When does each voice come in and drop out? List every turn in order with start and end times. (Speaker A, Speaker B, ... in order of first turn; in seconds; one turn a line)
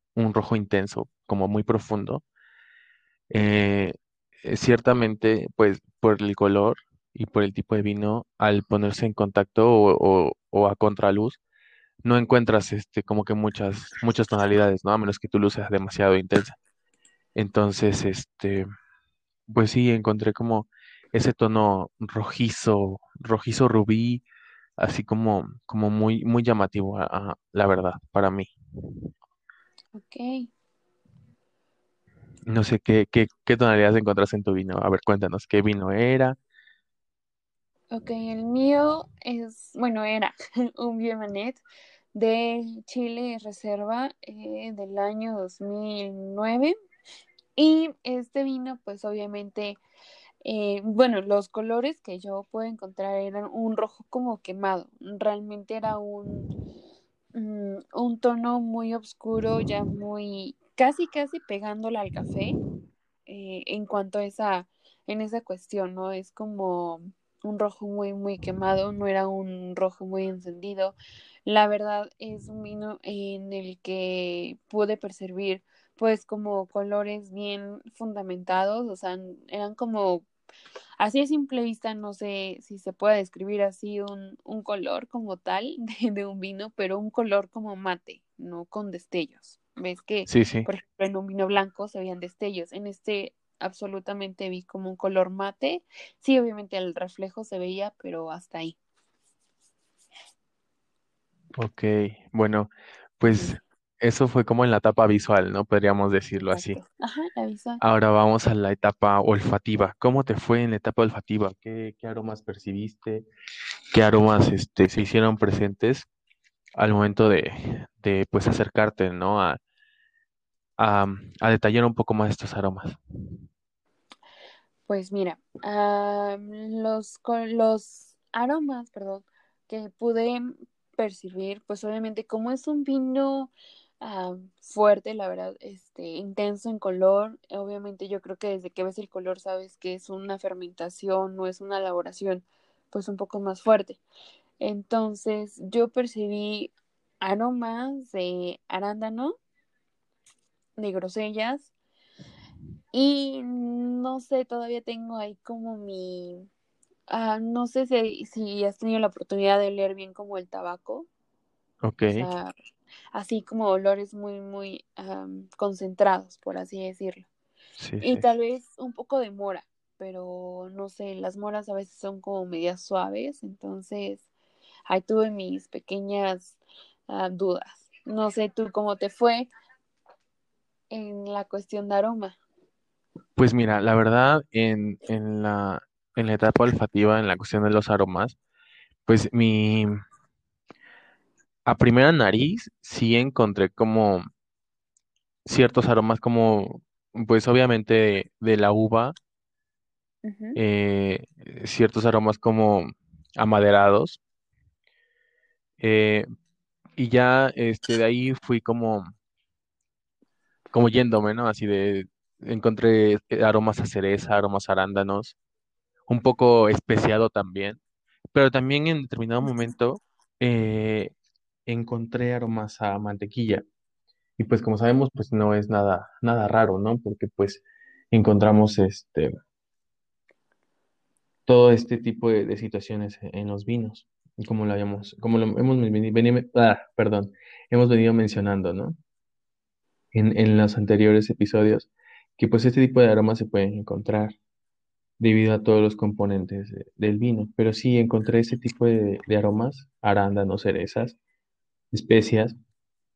Speaker A: 0.2-2.2
Speaker A: 3.3-11.4
Speaker A: 12.1-16.6
Speaker A: 17.4-18.7
Speaker A: 19.5-24.2
Speaker A: 24.8-28.5
Speaker B: 29.9-30.5
Speaker A: 32.5-36.4
Speaker B: 37.9-41.6
Speaker B: 42.1-46.7
Speaker B: 47.6-49.8
Speaker B: 50.4-56.5
Speaker B: 57.4-62.6
Speaker B: 63.3-71.0
Speaker B: 71.5-80.3
Speaker B: 81.0-98.8
Speaker A: 90.3-90.7
Speaker A: 101.6-106.8
Speaker B: 103.3-103.6
Speaker B: 106.5-107.8
Speaker A: 107.8-113.3
Speaker A: 113.9-116.1
Speaker A: 116.8-119.6
Speaker A: 120.8-123.0
Speaker B: 124.9-144.0
Speaker B: 144.6-146.7
Speaker B: 147.2-149.3
Speaker B: 150.8-151.7
Speaker B: 152.9-156.5
Speaker B: 157.1-161.1
Speaker A: 161.8-162.3
Speaker B: 162.1-162.5
Speaker B: 163.1-167.3
Speaker A: 167.8-168.3
Speaker B: 168.0-174.3
Speaker B: 174.9-179.5
Speaker B: 180.9-182.4
Speaker A: 183.4-188.4
Speaker A: 189.1-190.0
Speaker A: 191.7-194.2
Speaker A: 195.5-199.2
Speaker B: 200.2-200.6
Speaker A: 200.6-204.2
Speaker A: 205.8-206.3
Speaker A: 207.0-209.1
Speaker A: 210.7-215.4
Speaker A: 216.1-217.8
Speaker A: 218.3-221.1
Speaker A: 221.7-223.6
Speaker A: 224.4-229.3
Speaker A: 231.5-239.0
Speaker A: 240.1-244.4
Speaker A: 245.2-251.2
Speaker A: 251.9-252.6